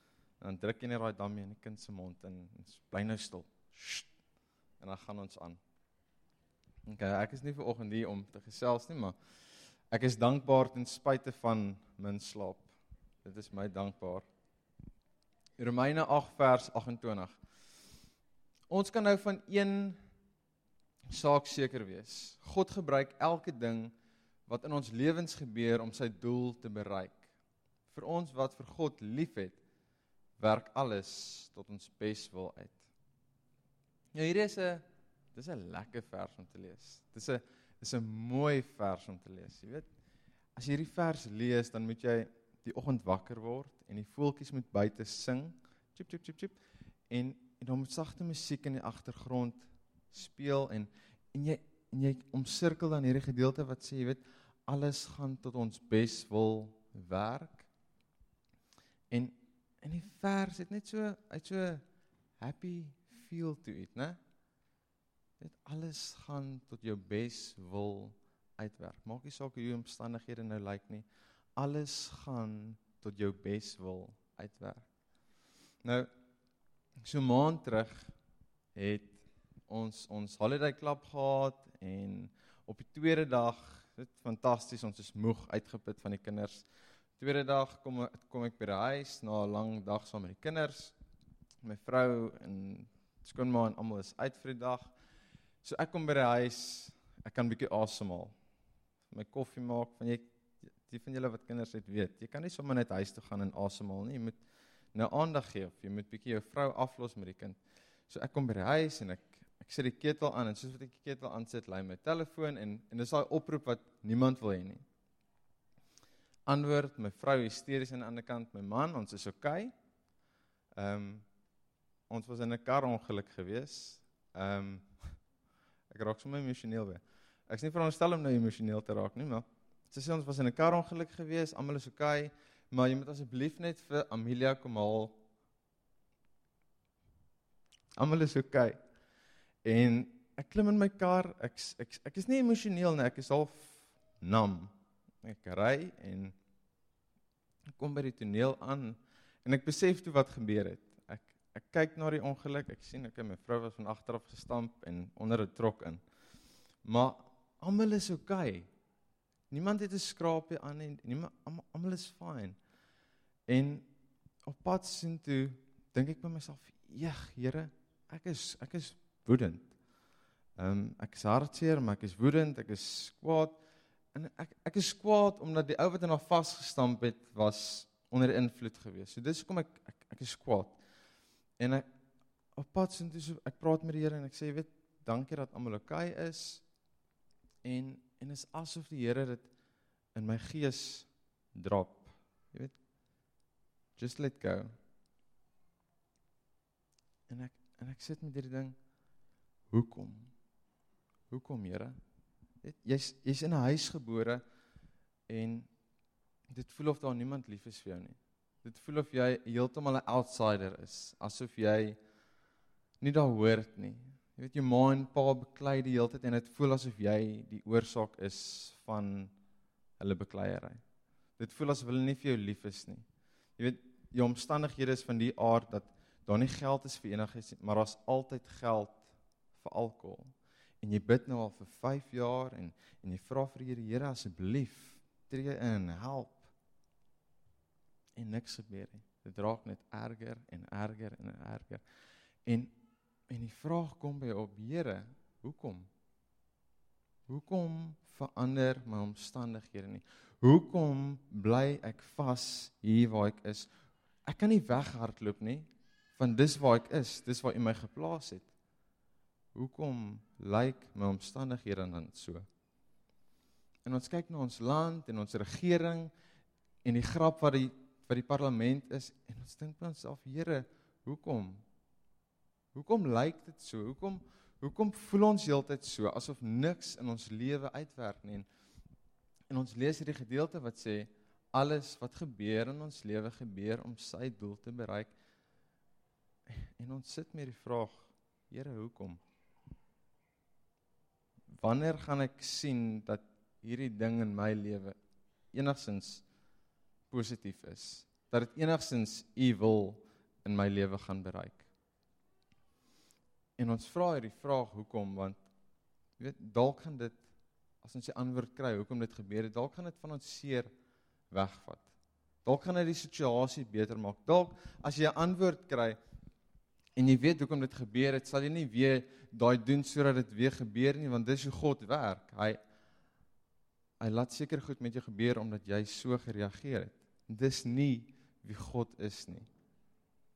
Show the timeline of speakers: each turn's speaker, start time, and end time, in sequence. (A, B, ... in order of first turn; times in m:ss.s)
0:00.4-0:04.1 A
0:04.8-0:05.6 A
0:06.9-0:09.2 A
0:09.9-0:12.7 A
0:13.2-0:14.3 A
0:15.6-0:17.4 A
0:18.7-0:20.0 A
0:21.1-0:23.9 A
0:24.5-0:27.3 A
0:27.9-0:29.6 A
0:30.4-0:32.9 A
0:34.1-0:39.9 A
0:40.6-0:46.6 A
0:47.1-0:57.7 A
0:59.1-1:01.8 A
1:02.4-1:04.2 A
1:05.4-1:11.1 A
1:11.6-1:14.9 A
1:15.8-1:16.1 A
1:17.0-1:18.1 A
1:18.8-1:26.6 A
1:27.2-1:31.0 A
1:31.6-1:34.9 A
1:35.6-1:38.4 A
1:39.1-1:40.3 A
1:40.8-1:44.4 A
1:44.9-1:54.8 A
1:56.5-1:59.7 A
2:00.8-2:01.3 A
2:02.1-2:04.9 A
2:05.9-2:15.2 A
2:18.0-2:18.8 A
2:19.6-2:24.7 A
2:25.2-2:26.4 A
2:27.8-2:36.0 A
2:36.8-2:38.7 A
2:39.5-2:42.6 A
2:43.5-2:43.9 A
2:44.5-2:49.7 A
2:50.6-2:53.6 A
2:54.1-3:00.8 A
3:01.6-3:01.9 A
3:02.6-3:06.6 A
3:07.6-3:09.5 A
3:10.2-3:12.8 A
3:14.0-3:14.7 A
3:17.3-3:18.8 A
3:19.7-3:20.3 A
3:21.3-3:22.0 A
3:22.6-3:24.4 A
3:25.3-3:25.7 A
3:26.5-3:32.0 A
3:33.0-3:39.3 A
3:40.0-3:40.8 A
3:41.4-3:43.0 A
3:43.6-3:56.5 A
3:58.2-4:01.8 A
4:02.5-4:02.7 A
4:03.3-4:05.9 A
4:07.3-4:13.7 A
4:14.3-4:18.5 A
4:19.6-4:22.5 A
4:23.8-4:26.1 A
4:26.8-4:31.6 A
4:32.7-4:38.5 A
4:39.5-4:45.1 A
4:46.5-4:49.2 A
4:51.6-4:55.0 A
4:55.5-4:56.2 A
4:57.1-5:01.7 A
5:03.6-5:05.4 A
5:06.2-5:07.2 A
5:07.8-5:10.7 A
5:11.3-5:11.9 A
5:12.4-5:16.0 A
5:17.0-5:22.6 A
5:24.0-5:29.5 A